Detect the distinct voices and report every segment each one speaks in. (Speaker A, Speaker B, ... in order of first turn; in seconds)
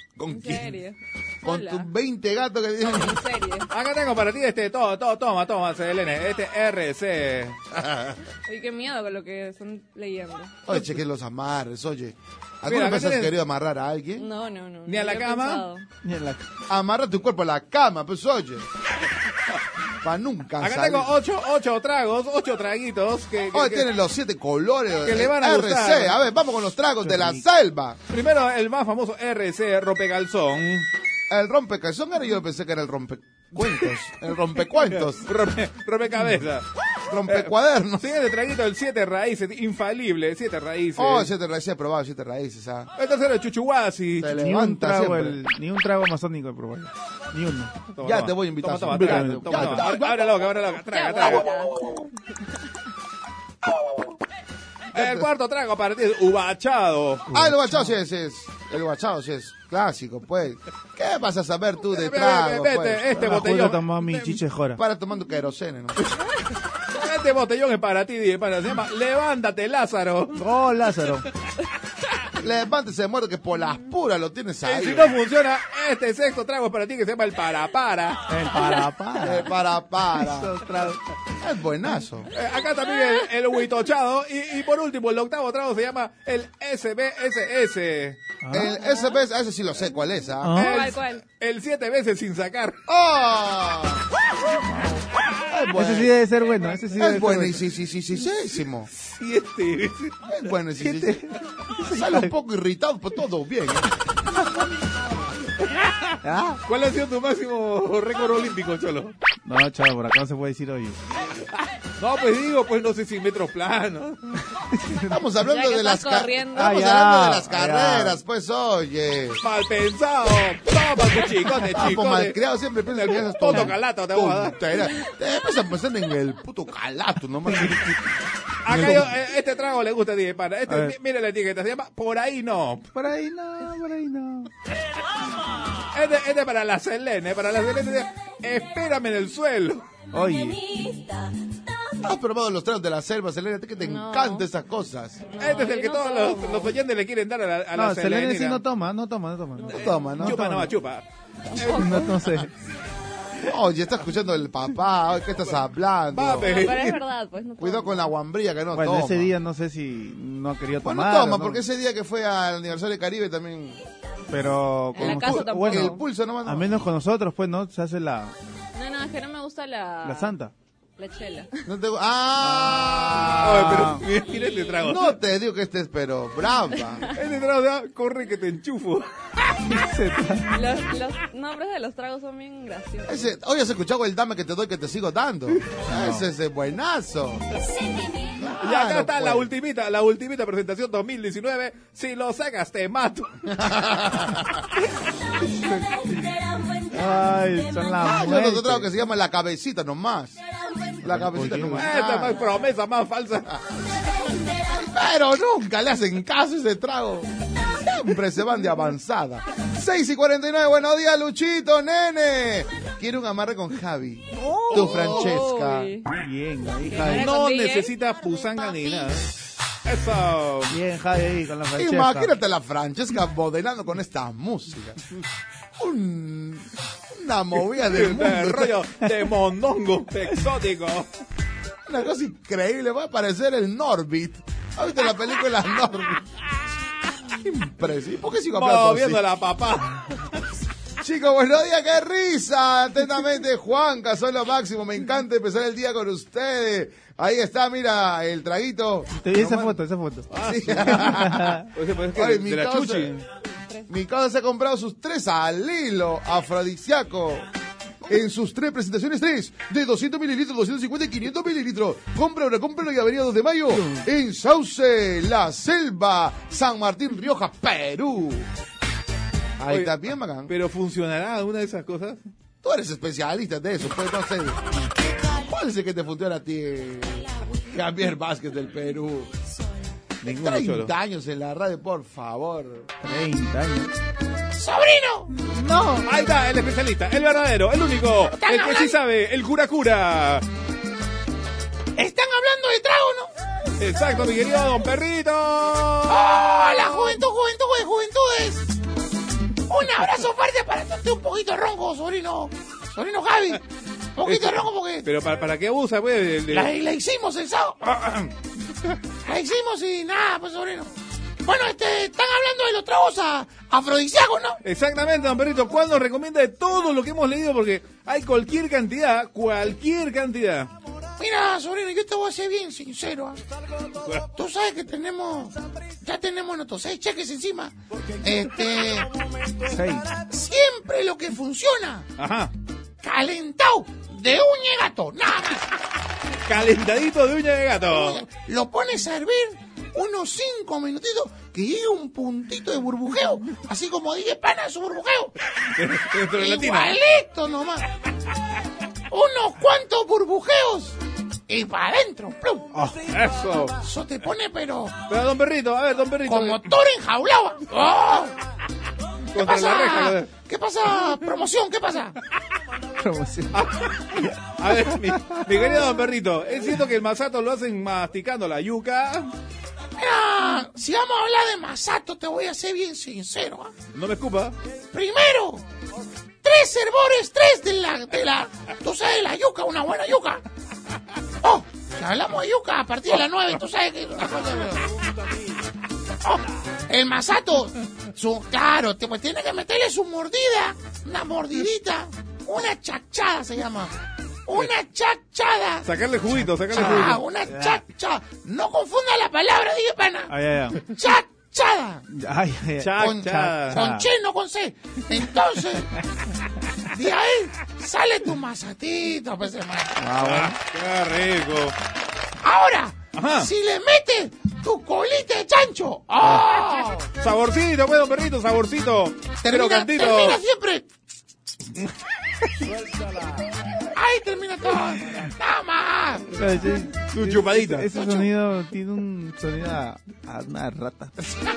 Speaker A: 0.2-0.7, 1.4-3.2, 7.7-8.2, 10.7-14.3, 16.7-18.7, 20.0-21.1, 23.5-28.0, 31.3-35.3, 37.1-38.1, 41.0-42.9, 44.2-45.4, 48.0-51.4, 53.7-54.1, 54.9-55.3, 57.3-63.1, 64.8-66.1, 72.4-75.2, 79.2-80.6, 81.4-82.3, 88.5-90.6, 92.9-94.0, 95.7-96.1, 97.0-98.9, 100.3-101.3, 101.8-103.9, 115.1-119.4, 121.7-128.0, 142.0-145.2, 149.7-150.4, 153.4-156.5, 157.6-159.3, 160.8-163.8, 165.0-166.8, 171.7-173.9, 174.8-177.0, 183.1-187.5, 188.3-189.5, 193.6-194.4, 198.0-200.4, 201.0-202.4, 204.5-215.9, 221.7-225.0, 225.8-228.8, 231.8-236.3, 237.4-239.2, 241.0-249.8, 250.3-251.6, 252.1-253.2, 253.9-257.4, 258.0-268.5, 269.6-270.5, 272.6-274.6, 275.2-279.4, 280.2-282.9, 328.4-328.8, 396.9-397.9
Speaker B: 0.3-1.9, 2.8-3.7, 8.5-10.6, 14.2-15.8, 50.9-51.8, 90.6-91.2, 115.4-116.8, 143.8-144.5, 145.3-146.7, 151.5-152.0, 156.4-158.1, 164.9-166.0, 168.7-170.3, 171.0-171.6, 180.5-183.3, 214.7-216.1, 216.9-218.9
Speaker C: 3.7-7.6, 12.6-13.3, 14.8-15.6, 20.6-23.9, 25.0-26.2, 28.1-30.9, 35.1-36.7, 37.2-41.3, 43.0-44.3, 47.9-51.5, 54.9-57.2, 61.9-64.4, 66.9-70.4, 74.6-78.3, 82.3-88.2, 90.6-92.8, 98.9-100.4, 105.8-109.1, 112.0-114.4, 119.4-122.4, 122.9-124.6, 128.6-132.9, 135.9-139.8, 145.4-148.6, 150.1-151.0, 151.6-152.1, 156.1-157.0, 173.4-175.2, 177.1-179.1, 188.6-193.6, 201.8-203.5, 217.0-220.8, 227.8-231.1, 238.5-240.2, 250.3-253.2, 269.7-269.9, 270.5-272.2, 280.2-280.9, 286.1-290.4, 293.8-296.3, 304.2-306.7, 314.6-320.7, 332.2-332.5, 336.4-338.2, 345.7-347.0, 353.1-353.8, 355.1-356.8, 359.3-360.3, 363.5-369.3, 373.9-374.6, 395.8-397.2, 402.8-403.8, 410.2-411.7, 413.1-413.5, 417.2-420.4, 427.1-427.9
Speaker D: 16.0-16.5, 27.0-27.4, 44.3-47.7, 48.9-49.9, 57.3-57.9, 63.1-64.8, 70.3-71.2, 78.3-79.5, 80.1-81.0, 88.4-88.7, 90.4-90.8, 95.5-97.7, 100.8-102.3, 106.2-106.6, 109.4-111.0, 114.7-115.2, 116.5-118.2, 128.7-129.1, 130.7-130.9, 132.9-134.5, 140.1-140.7, 147.7-150.7, 151.7-152.5, 158.7-161.6, 164.3-168.3, 170.0-170.5, 172.8-174.0, 179.7-180.5, 185.8-186.2, 195.4-198.9, 201.0-201.9, 214.4-215.3, 216.2-217.3, 220.7-222.3, 249.1-250.3, 251.0-251.6, 263.7-264.1, 283.0-283.9, 285.4-286.1, 329.6-330.1, 352.7-353.0, 363.0-365.4, 396.4-397.8, 400.3-400.8, 402.1-404.1, 409.9-410.6, 426.3-431.3
Speaker E: 284.6-285.3, 288.3-288.9, 291.9-293.3, 296.1-298.6, 299.7-303.6, 304.2-305.0, 306.5-308.1, 309.2-310.9, 311.4-314.6, 321.2-323.4, 324.3-325.5, 326.0-327.7, 328.2-329.0, 330.3-332.0, 333.0-335.6, 337.9-345.3, 346.4-347.8, 349.1-350.9, 351.5-352.6, 353.8-354.9, 356.3-358.3, 359.4-362.1, 370.0-373.7, 374.9-375.6, 376.4-380.4, 381.4-384.8, 386.2-393.9, 394.5-395.8, 396.8-400.3, 400.9-402.0, 403.7-405.9, 406.9-409.9, 412.4-417.0, 419.4-420.8, 423.9-426.2, 428.0-428.2